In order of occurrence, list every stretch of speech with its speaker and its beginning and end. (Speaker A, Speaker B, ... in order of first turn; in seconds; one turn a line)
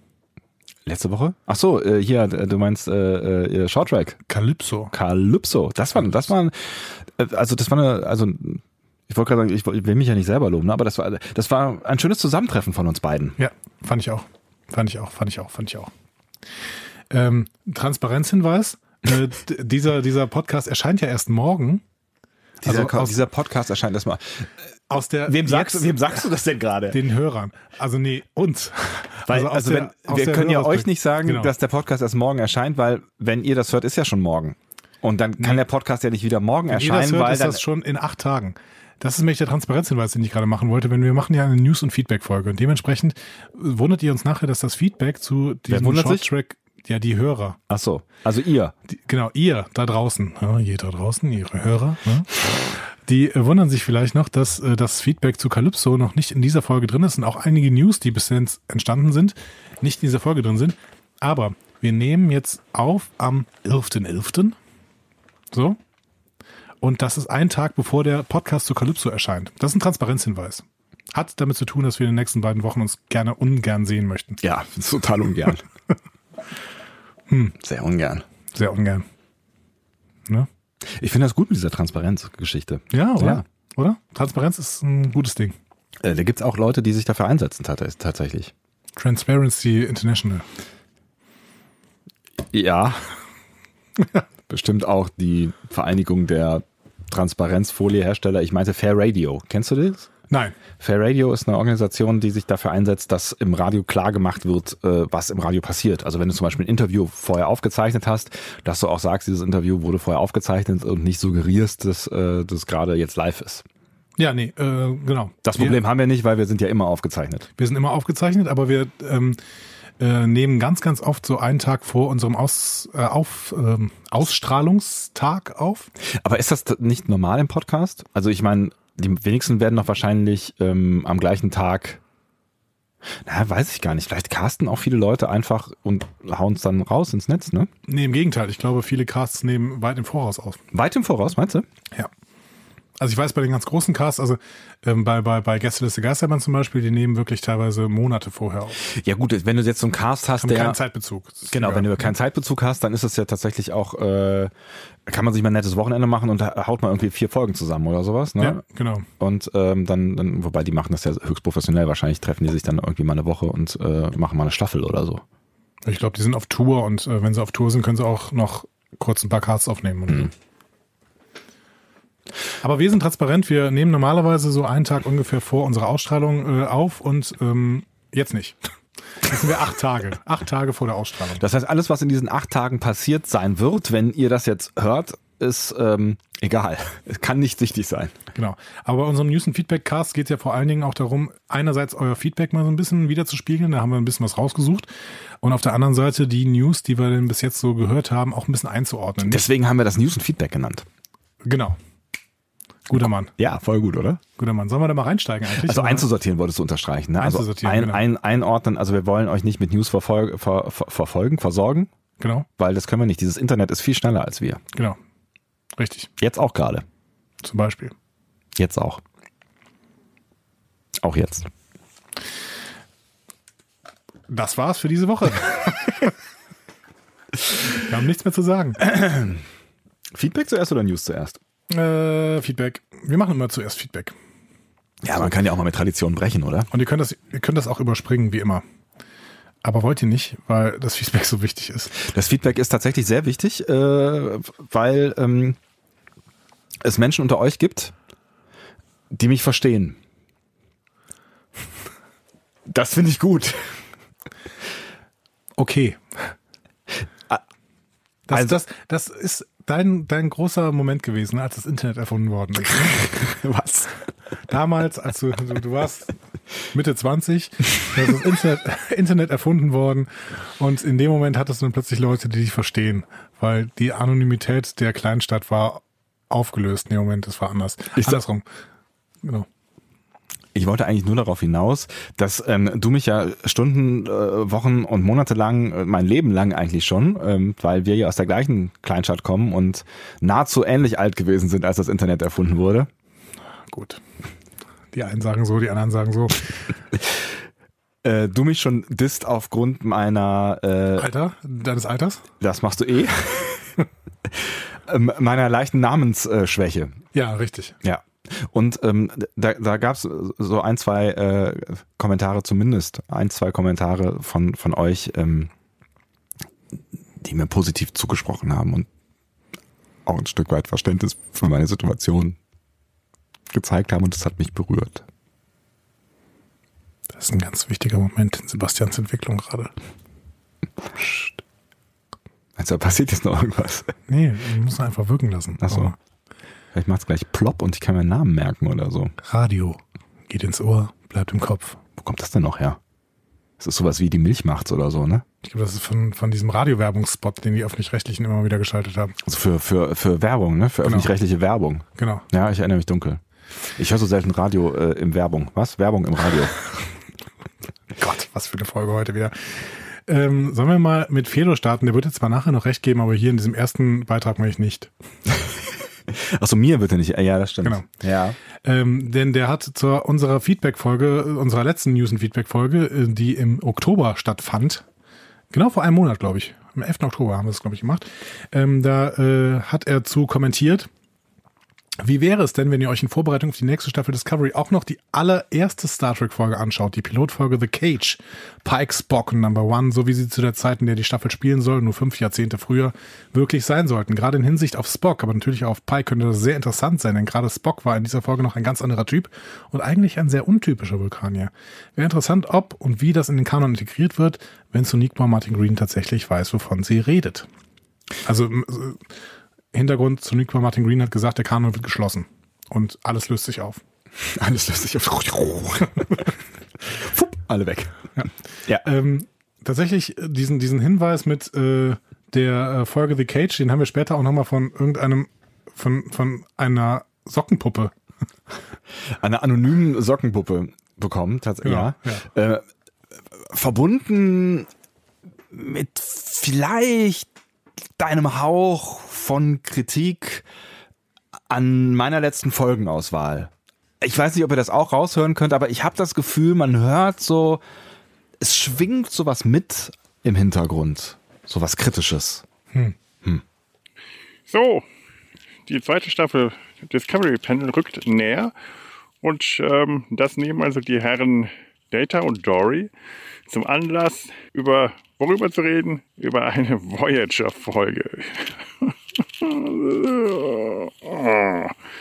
Speaker A: 0.8-4.2
Speaker B: 4.3-4.9
Speaker A: 4.9-13.4
Speaker B: 13.4-15.9
Speaker B: 17.1-21.8
Speaker A: 22.6-24.5
Speaker B: 22.6-23.2
Speaker B: 24.9-26.2
Speaker A: 25.3-27.0
Speaker B: 26.9-31.5
Speaker A: 29.3-37.6
Speaker B: 36.7-47.6
Speaker A: 45.7-46.3
Speaker A: 47.7-48.7
Speaker B: 49.0-52.3
Speaker B: 53.0-64.6
Speaker B: 65.5-65.8
Speaker B: 66.8-74.4
Speaker A: 74.4-75.6
Speaker B: 77.3-77.5
Speaker A: 77.6-78.2
Speaker B: 78.5-79.0
Speaker A: 80.9-83.4
Speaker B: 82.9-85.5
Speaker A: 86.0-88.5
Speaker B: 89.0-90.4
Speaker A: 92.5-93.2
Speaker A: 94.5-100.1
Speaker B: 100.3-100.5
Speaker A: 100.8-113.6
Speaker B: 114.2-115.8
Speaker A: 115.4-117.5
Speaker B: 117.6-119.4
Speaker B: 120.0-125.9
Speaker A: 126.2-132.0
Speaker A: 133.2-137.7
Speaker B: 137.9-140.6
Speaker A: 140.7-141.7
Speaker B: 143.0-148.9
Speaker A: 148.8-150.8
Speaker B: 150.4-151.9
Speaker A: 151.5-154.5
Speaker A: 155.1-158.6
Speaker B: 158.4-159.1
Speaker A: 159.2-165.2
Speaker B: 165.8-170.3
Speaker B: 172.6-178.6
Speaker B: 179.2-181.4
Speaker A: 181.4-188.1
Speaker B: 188.3-194.9
Speaker B: 195.4-199.4
Speaker A: 199.2-200.8
Speaker B: 201.4-201.8
Speaker B: 202.9-203.3
Speaker A: 203.4-204.2
Speaker B: 204.4-206.1
Speaker A: 205.5-211.9
Speaker B: 207.2-208.0
Speaker B: 212.2-212.5
Speaker A: 212.6-214.6
Speaker B: 214.7-215.0
Speaker B: 215.8-216.1
Speaker A: 216.2-216.8
Speaker B: 217.4-217.9
Speaker A: 218.6-219.0
Speaker A: 221.0-221.5
Speaker B: 224.3-226.1
Speaker B: 227.7-228.8
Speaker A: 228.8-229.4
Speaker A: 230.1-231.4
Speaker B: 231.7-234.2
Speaker A: 235.0-236.7
Speaker B: 236.7-238.6
Speaker B: 239.6-241.9
Speaker A: 241.9-245.6
Speaker A: 246.8-247.9
Speaker A: 249.1-250.0
Speaker A: 252.7-253.8
Speaker B: 255.6-256.3
Speaker B: 258.3-263.1
Speaker A: 258.3-258.6
Speaker A: 262.7-263.9
Speaker B: 264.5-266.1
Speaker B: 266.7-278.4
Speaker A: 278.0-278.2
Speaker A: 280.5-292.9
Speaker B: 293.7-294.0
Speaker B: 294.9-296.6
Speaker A: 298.0-301.1
Speaker B: 300.9-302.2
Speaker A: 302.4-303.8
Speaker A: 304.3-306.9
Speaker B: 307.1-307.8
Speaker A: 307.8-315.5
Speaker A: 317.2-318.9
Speaker A: 320.1-322.4
Speaker A: 323.5-325.0
Speaker B: 327.2-329.7
Speaker B: 331.0-331.2
Speaker A: 332.6-333.9
Speaker B: 334.1-335.9
Speaker A: 335.6-335.9
Speaker A: 336.7-339.1
Speaker B: 339.2-341.8
Speaker A: 342.0-342.8
Speaker A: 343.6-345.2
Speaker B: 345.4-349.1
Speaker A: 349.2-353.2
Speaker B: 350.8-351.1
Speaker B: 351.9-352.2
Speaker A: 353.8-356.6
Speaker B: 358.0-364.9
Speaker A: 366.1-368.4
Speaker B: 368.6-374.8
Speaker B: 375.5-380.9
Speaker B: 382.0-407.5
Speaker B: 408.2-409.1
Speaker B: 409.7-413.8
Speaker A: 414.2-416.3
Speaker A: 416.9-418.0
Speaker B: 418.8-427.9
Speaker A: 429.1-432.6
Speaker B: 431.6-432.2
Speaker A: 433.4-434.7
Speaker A: 435.5-437.3
Speaker A: 438.0-440.4
Speaker A: 441.5-447.6
Speaker A: 448.4-452.4
Speaker C: 454.5-454.8
Speaker C: 455.6-458.5
Speaker C: 459.2-462.9
Speaker C: 463.5-471.7